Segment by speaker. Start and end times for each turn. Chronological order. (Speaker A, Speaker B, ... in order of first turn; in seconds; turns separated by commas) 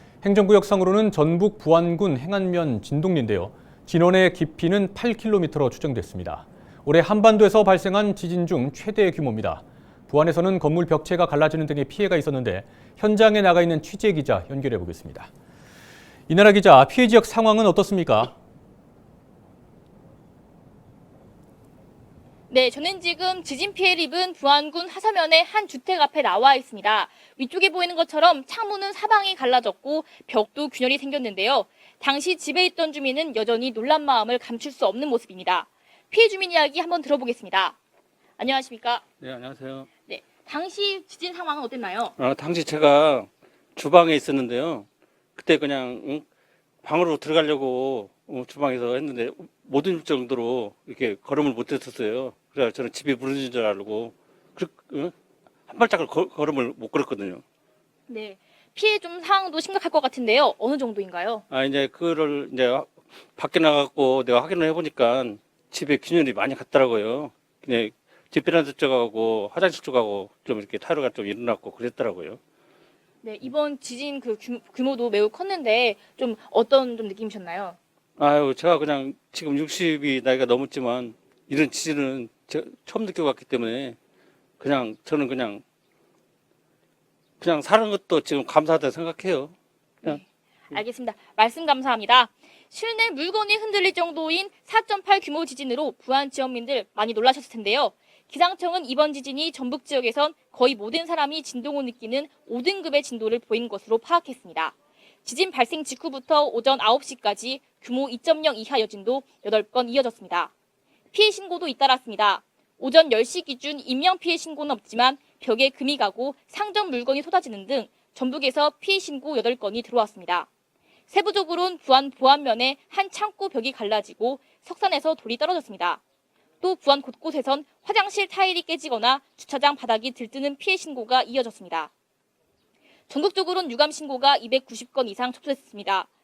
Speaker A: 0.2-15.3, Speaker A: 16.3-18.3, Speaker B: 22.5-37.8, Speaker B: 38.4-39.0, Speaker C: 39.2-39.9, Speaker B: 40.1-42.1, Speaker C: 42.2-46.2, Speaker C: 46.8-55.1, Speaker C: 55.7-57.4, Speaker B: 58.1-61.4, Speaker C: 61.5-72.4, Speaker B: 73.2-77.8, Speaker C: 78.2-84.0, Speaker C: 84.6-85.6, Speaker C: 87.4-90.2, Speaker B: 90.0-110.5, Speaker B: 111.1-120.5, Speaker B: 121.1-126.0, Speaker B: 126.6-131.9, Speaker B: 133.1-136.1